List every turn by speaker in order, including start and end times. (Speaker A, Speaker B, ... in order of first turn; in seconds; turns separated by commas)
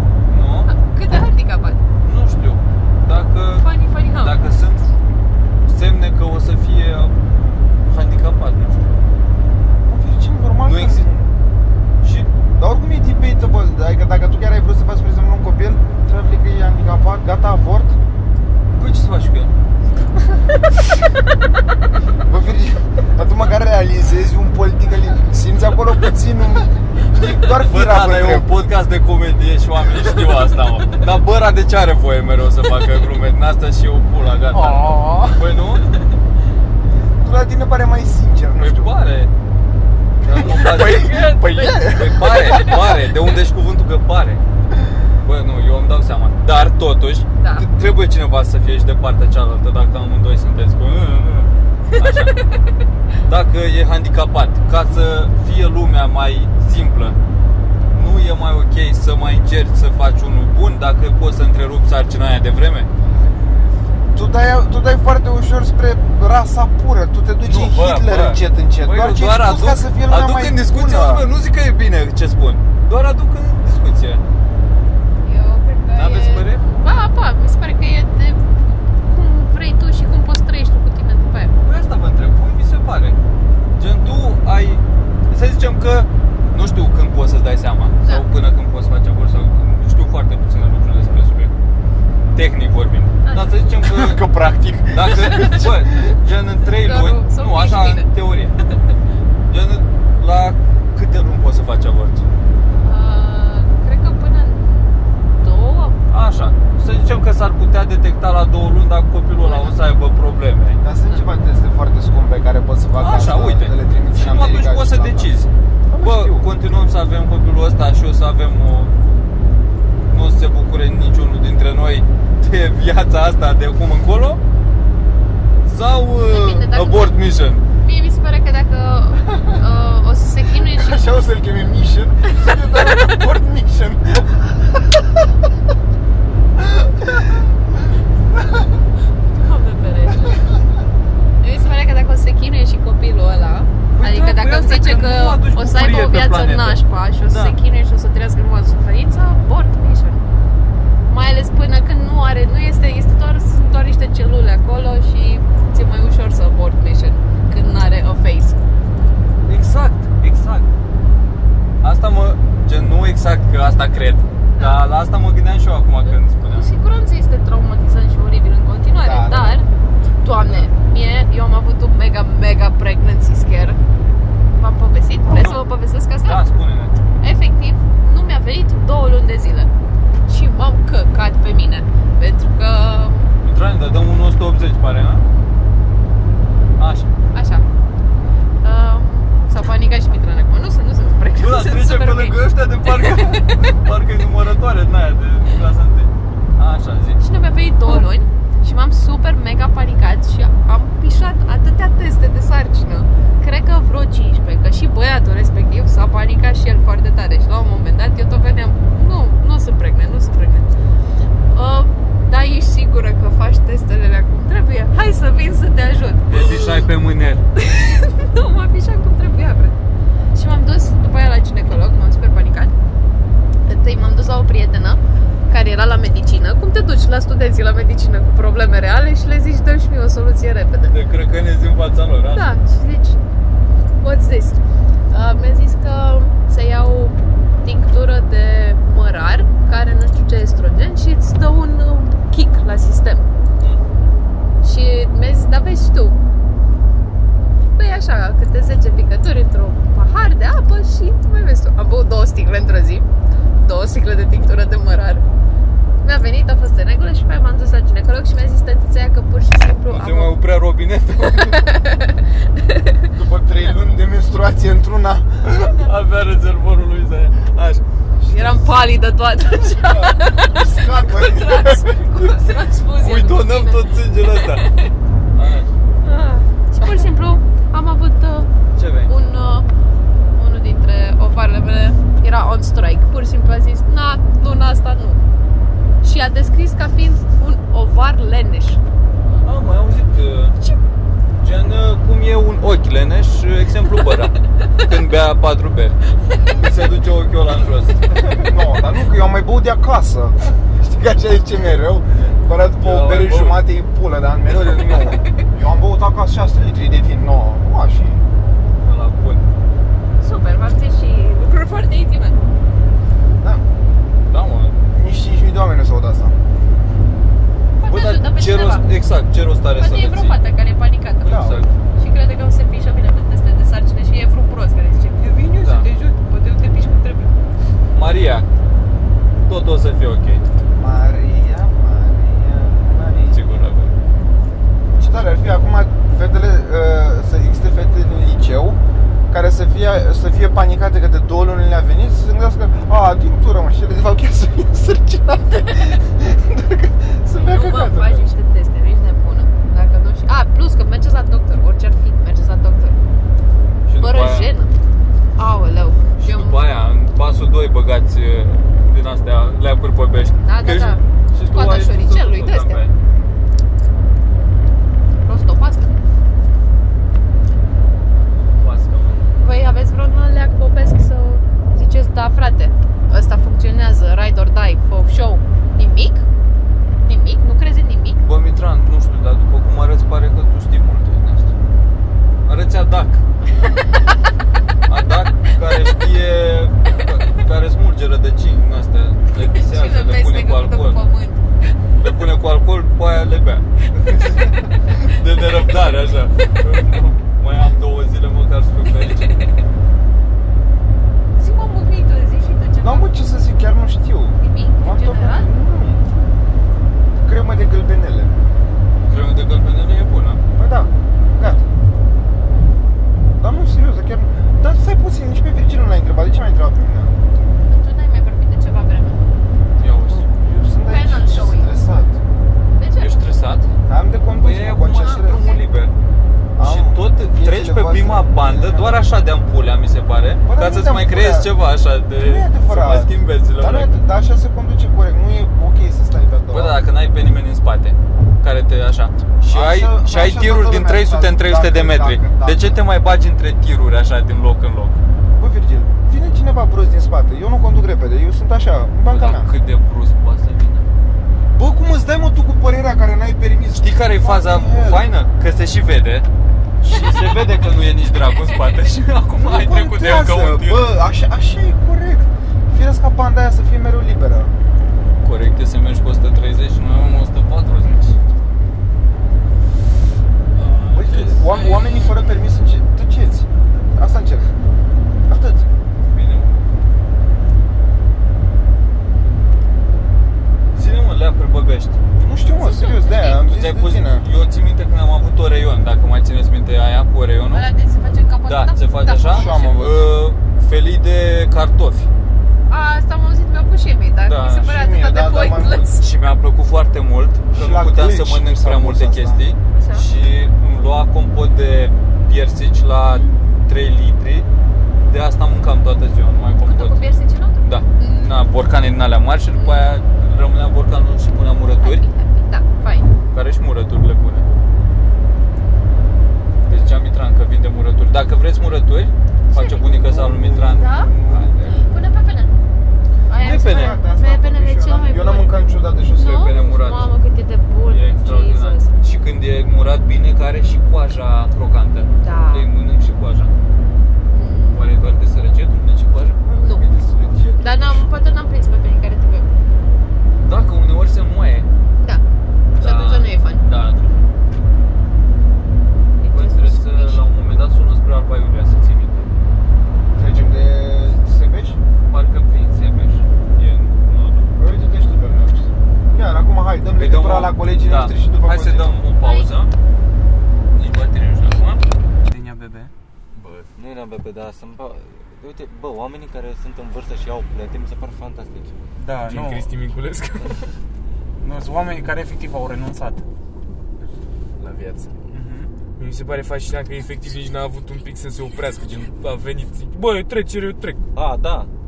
Speaker A: 0.3-0.7, Speaker B: 0.7-1.8, Speaker A: 2.0-4.8, Speaker B: 3.6-4.5, Speaker A: 5.7-7.2, Speaker A: 7.9-8.9, Speaker C: 9.9-11.4, Speaker A: 10.6-11.1, Speaker A: 12.0-12.3, Speaker C: 12.6-18.0, Speaker A: 18.7-19.5, Speaker C: 22.2-28.5, Speaker A: 27.5-35.9, Speaker C: 34.5-35.5, Speaker C: 37.2-39.0, Speaker A: 38.6-39.3, Speaker C: 40.2-42.9, Speaker A: 40.2-44.4, Speaker A: 45.2-52.4, Speaker B: 47.4-47.7, Speaker B: 52.0-52.5, Speaker A: 53.2-57.2, Speaker A: 57.9-62.9, Speaker C: 64.1-71.2, Speaker A: 67.4-74.2, Speaker B: 75.2-78.4, Speaker A: 75.9-76.7, Speaker B: 79.0-81.6, Speaker A: 81.6-83.2, Speaker A: 83.8-91.5, Speaker B: 88.0-88.3, Speaker A: 92.3-94.2, Speaker B: 93.2-93.7, Speaker D: 93.9-95.7, Speaker A: 94.9-98.6, Speaker C: 95.3-95.9, Speaker B: 96.6-98.1, Speaker A: 99.5-102.2, Speaker B: 102.8-106.0, Speaker A: 106.1-110.8, Speaker B: 109.4-109.8, Speaker C: 110.8-115.3, Speaker A: 113.0-118.9, Speaker C: 115.9-116.5, Speaker A: 120.1-124.4, Speaker A: 125.7-127.6, Speaker B: 126.2-127.2, Speaker B: 127.8-131.1, Speaker C: 130.7-135.0, Speaker C: 136.6-137.5, Speaker B: 139.3-140.5, Speaker B: 141.4-150.2, Speaker A: 143.9-147.6, Speaker B: 151.1-158.6, Speaker A: 159.5-160.7, Speaker A: 161.8-166.7, Speaker B: 164.6-164.8, Speaker B: 166.1-169.7, Speaker C: 168.9-169.6, Speaker B: 170.2-173.8, Speaker B: 174.5-176.4, Speaker A: 175.3-175.6, Speaker A: 176.2-177.0, Speaker B: 177.2-179.7, Speaker B: 180.3-183.3, Speaker A: 183.4-185.2, Speaker A: 186.8-187.1, Speaker B: 187.3-187.7, Speaker B: 188.6-193.7, Speaker A: 191.4-197.2, Speaker B: 197.2-210.7, Speaker B: 211.5-216.9, Speaker A: 216.3-217.4, Speaker B: 217.6-219.8, Speaker B: 220.3-222.7, Speaker B: 223.7-225.0, Speaker B: 225.5-230.9, Speaker A: 230.9-232.5, Speaker B: 232.3-233.2, Speaker B: 234.0-243.3, Speaker B: 244.6-246.2, Speaker B: 247.8-253.1, Speaker B: 253.6-255.2, Speaker B: 256.0-260.4, Speaker A: 259.9-261.6, Speaker B: 261.2-263.1, Speaker C: 263.1-265.7, Speaker A: 265.7-267.8, Speaker C: 268.2-268.6, Speaker B: 268.2-274.9, Speaker C: 269.7-272.1, Speaker A: 272.9-274.6, Speaker A: 275.3-275.7, Speaker B: 276.0-278.5, Speaker A: 278.8-279.1, Speaker B: 279.1-279.7, Speaker B: 280.4-285.2, Speaker B: 286.0-288.8, Speaker A: 289.4-290.6, Speaker A: 291.4-298.4, Speaker C: 298.4-308.2, Speaker A: 302.1-303.6, Speaker A: 304.7-305.1, Speaker A: 308.8-309.5, Speaker B: 310.2-312.4, Speaker A: 314.3-314.8, Speaker C: 314.9-316.4, Speaker B: 317.8-318.9, Speaker A: 317.9-320.4, Speaker B: 319.8-321.4, Speaker A: 321.2-321.7, Speaker C: 321.2-321.6, Speaker B: 322.0-327.4, Speaker C: 325.2-325.8, Speaker A: 325.6-325.9, Speaker A: 327.9-328.5, Speaker A: 329.5-330.4, Speaker C: 330.8-333.7, Speaker A: 333.3-333.9, Speaker C: 335.0-348.3, Speaker B: 347.4-353.0, Speaker A: 353.9-354.5, Speaker B: 354.0-354.7, Speaker B: 355.4-356.6, Speaker A: 356.2-362.9, Speaker B: 360.4-362.8, Speaker B: 365.2-365.9, Speaker A: 368.6-369.3, Speaker B: 369.3-376.2, Speaker B: 377.1-378.2, Speaker A: 378.2-381.5, Speaker A: 382.5-383.2, Speaker B: 383.6-384.0, Speaker A: 384.9-391.0, Speaker B: 389.4-391.7, Speaker A: 392.0-399.5, Speaker B: 401.4-403.1, Speaker C: 402.8-406.0, Speaker B: 404.4-405.5, Speaker C: 407.2-408.4, Speaker A: 409.1-410.4, Speaker C: 410.6-411.6, Speaker C: 413.4-417.1, Speaker B: 417.6-419.3, Speaker A: 419.8-420.3, Speaker C: 420.0-422.1, Speaker B: 420.8-421.8, Speaker B: 422.8-423.1, Speaker A: 423.0-423.7, Speaker C: 423.9-425.6, Speaker A: 424.4-425.9, Speaker B: 424.9-425.6, Speaker C: 426.6-429.0, Speaker A: 426.6-434.0, Speaker C: 430.5-431.5, Speaker C: 432.2-436.8, Speaker A: 436.5-445.0, Speaker C: 439.4-442.8, Speaker C: 445.4-449.5, Speaker A: 449.0-450.9, Speaker C: 451.5-455.1, Speaker A: 453.8-456.3, Speaker A: 456.8-460.9, Speaker C: 459.3-464.5, Speaker A: 465.2-468.2, Speaker A: 470.5-472.3, Speaker C: 470.9-474.5, Speaker C: 475.3-475.7, Speaker A: 476.1-476.6, Speaker A: 480.7-482.0, Speaker C: 482.2-484.2, Speaker B: 482.5-483.4, Speaker A: 483.2-487.6, Speaker B: 487.5-489.8, Speaker A: 488.5-492.1, Speaker C: 489.3-490.1, Speaker B: 492.7-496.0, Speaker A: 494.2-494.7, Speaker C: 494.6-496.0, Speaker A: 496.0-504.5, Speaker C: 497.5-499.4, Speaker B: 499.7-500.1, Speaker B: 503.1-503.4, Speaker A: 505.0-507.0, Speaker B: 506.6-508.4, Speaker A: 507.6-512.0, Speaker B: 509.5-509.9, Speaker B: 511.8-513.1, Speaker A: 513.3-514.5, Speaker A: 516.6-521.8, Speaker B: 519.5-520.0, Speaker C: 519.9-521.9, Speaker B: 520.8-521.1, Speaker B: 521.6-522.5, Speaker B: 523.3-525.5, Speaker C: 523.4-526.5, Speaker A: 523.4-524.0, Speaker B: 526.1-528.9, Speaker A: 526.2-527.1, Speaker A: 527.9-533.5, Speaker B: 532.2-532.7, Speaker B: 534.3-534.9, Speaker A: 534.7-536.4, Speaker C: 536.4-538.1, Speaker B: 536.6-536.9, Speaker B: 537.6-539.5, Speaker A: 540.4-541.7, Speaker A: 542.8-544.2, Speaker B: 542.8-543.6, Speaker B: 546.2-547.2, Speaker A: 546.3-549.3, Speaker C: 550.1-551.8, Speaker A: 552.1-554.5, Speaker C: 554.6-559.0, Speaker A: 556.9-559.7, Speaker B: 559.2-559.5, Speaker A: 560.8-561.8, Speaker D: 562.2-562.9, Speaker E: 563.4-563.7, Speaker F: 563.8-568.7, Speaker D: 569.0-569.7, Speaker E: 569.2-570.7, Speaker D: 571.4-573.2, Speaker E: 574.6-575.2, Speaker D: 575.3-575.7, Speaker E: 576.0-581.0, Speaker F: 581.1-581.7